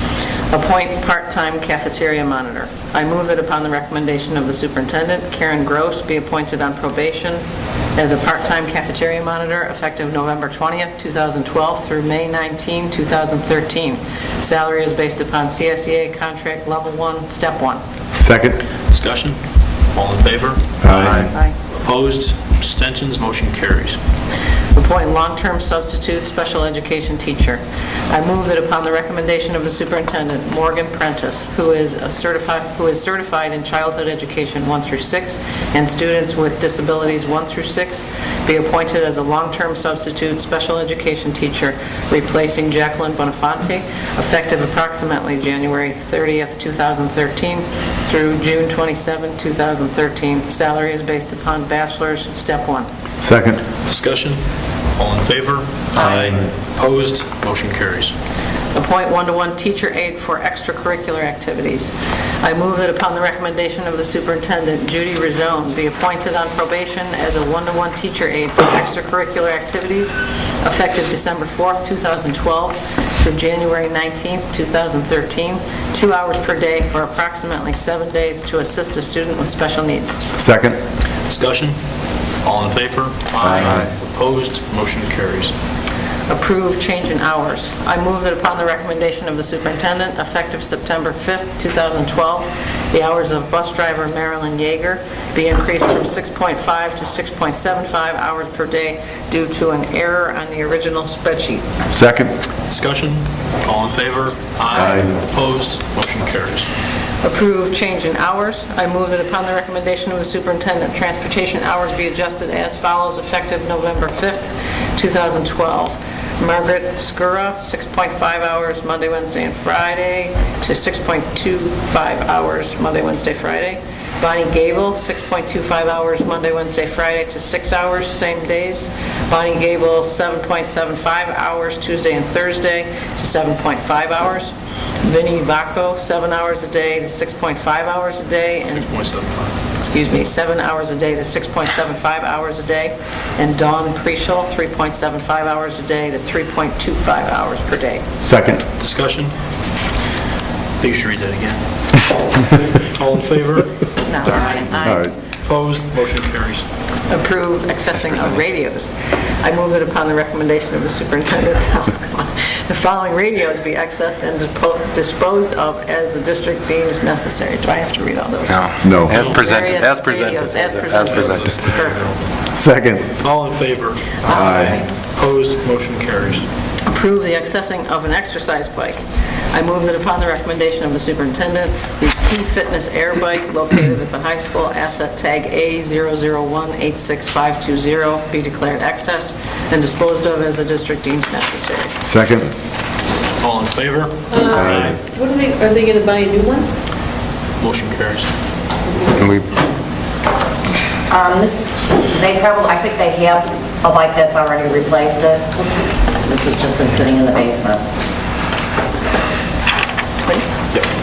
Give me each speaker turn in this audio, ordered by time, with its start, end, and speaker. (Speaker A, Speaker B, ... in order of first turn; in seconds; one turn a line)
Speaker A: 0.5-7.4
Speaker A: 8.0-17.8
Speaker B: 18.2-18.6
Speaker C: 18.9-24.0
Speaker B: 20.8-21.3
Speaker A: 24.7-52.9
Speaker B: 53.2-53.6
Speaker C: 53.9-54.4
Speaker C: 55.0-58.1
Speaker A: 58.7-80.2
Speaker B: 80.4-80.8
Speaker C: 81.3-81.8
Speaker C: 82.4-85.5
Speaker B: 83.4-83.9
Speaker A: 86.3-101.7
Speaker B: 101.9-102.3
Speaker C: 102.7-106.7
Speaker B: 104.7-105.2
Speaker A: 107.2-134.5
Speaker A: 135.0-138.9
Speaker C: 138.7-139.5
Speaker A: 139.8-148.1
Speaker B: 148.2-148.6
Speaker C: 148.8-149.3
Speaker C: 150.8-151.8
Speaker C: 152.9-154.8
Speaker D: 154.1-155.1
Speaker B: 154.8-155.1
Speaker C: 155.4-156.7
Speaker A: 157.1-172.2
Speaker E: 168.5-172.0
Speaker B: 168.8-169.3
Speaker C: 169.1-169.4
Speaker C: 170.7-172.2
Speaker B: 172.5-173.1
Speaker C: 173.2-176.5
Speaker D: 174.2-174.8
Speaker B: 174.3-174.8
Speaker A: 176.8-179.0
Speaker A: 179.5-191.9
Speaker B: 192.0-192.5
Speaker C: 193.4-194.9
Speaker F: 194.3-196.7
Speaker B: 194.5-194.9
Speaker C: 197.6-198.3
Speaker F: 198.9-199.2
Speaker E: 199.2-199.5
Speaker D: 201.1-205.5
Speaker D: 206.2-207.8